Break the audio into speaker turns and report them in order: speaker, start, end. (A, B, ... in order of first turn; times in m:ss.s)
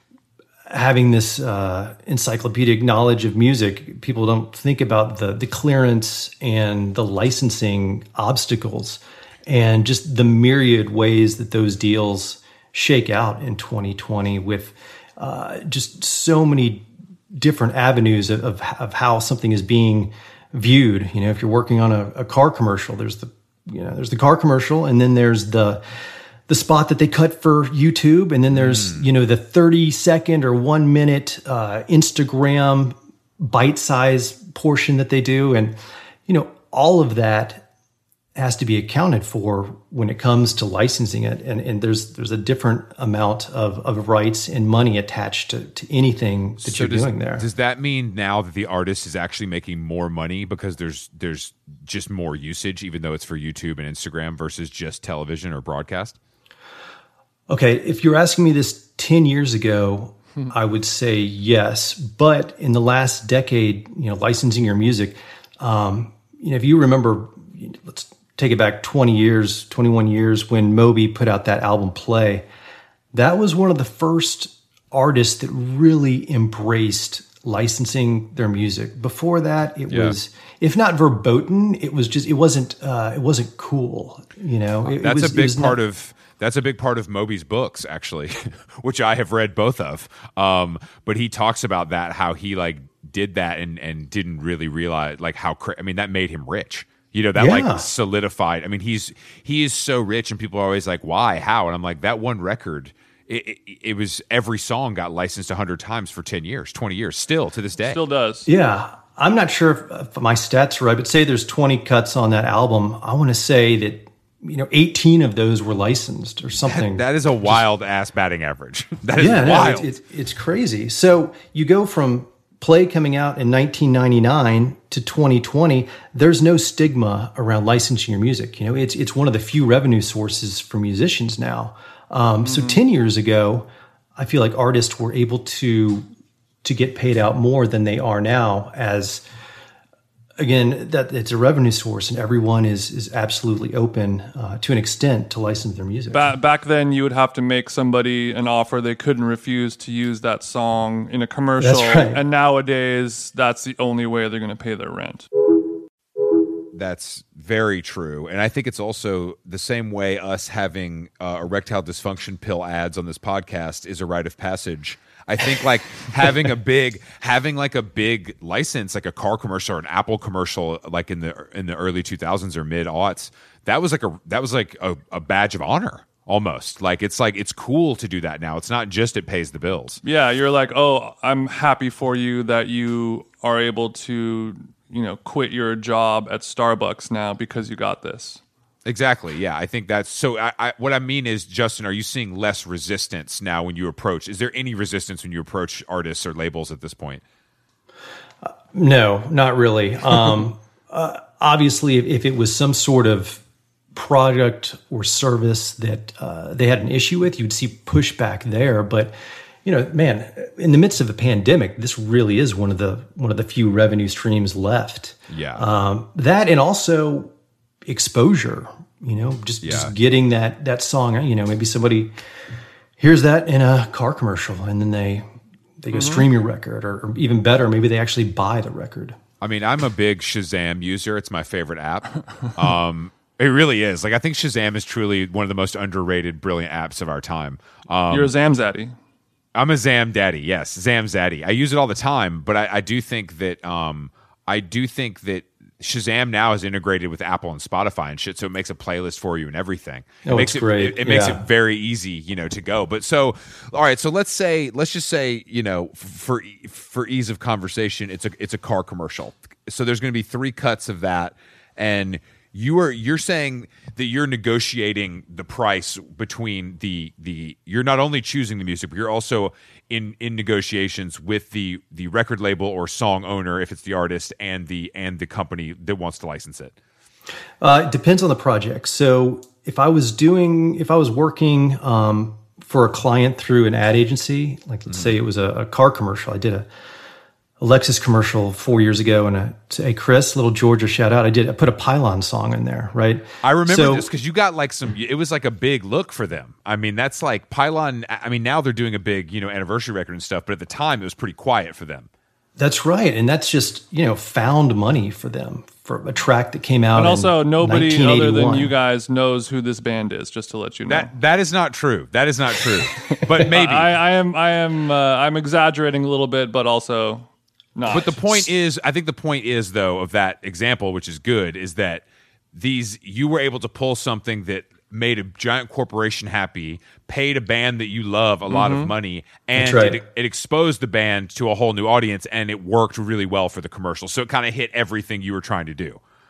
0:00.7-0:25.8 A
0:26.5-0:35.8 A
0:28.6-0:29.0 B
0:36.3-0:37.6 A
0:38.3-0:47.4 A
0:46.6-0:56.2 B
0:57.5-1:12.4 A
1:13.1-1:25.8 A
1:19.9-1:20.2 B
1:24.8-1:48.0 B
1:37.4-1:37.9 A
1:47.8-1:48.5 C
1:48.4-1:57.6 A
1:56.6-1:59.9 B
1:59.2-2:16.0 A
2:12.4-2:12.8 C
2:16.6-2:19.2 A
2:20.4-2:26.3 A
2:26.1-2:35.3 C
2:31.6-2:32.2 A
2:36.7-3:00.0 B
3:00.0-3:08.4 C
3:08.8-3:17.2 B
3:18.4-3:23.4 A
3:23.9-3:29.1 A
3:29.6-3:37.3 A
3:35.3-3:35.6 B
3:37.8-3:42.1 A
3:39.6-3:39.9 B
3:43.0-3:45.2 A
3:45.8-3:49.2 A
3:45.9-3:46.2 C
3:49.4-3:58.3 B
3:58.1-3:58.9 C
3:59.5-4:36.7 B
4:10.2-4:11.4 A
4:37.6-4:46.7 A
4:47.6-4:54.1 A
4:53.4-5:02.1 B
5:02.6-5:08.7 A
5:06.9-5:11.1 C
5:10.9-5:13.9 B
5:13.0-5:18.4 C
5:17.9-5:36.0 B
5:28.5-5:28.9 C
5:29.6-5:30.0 A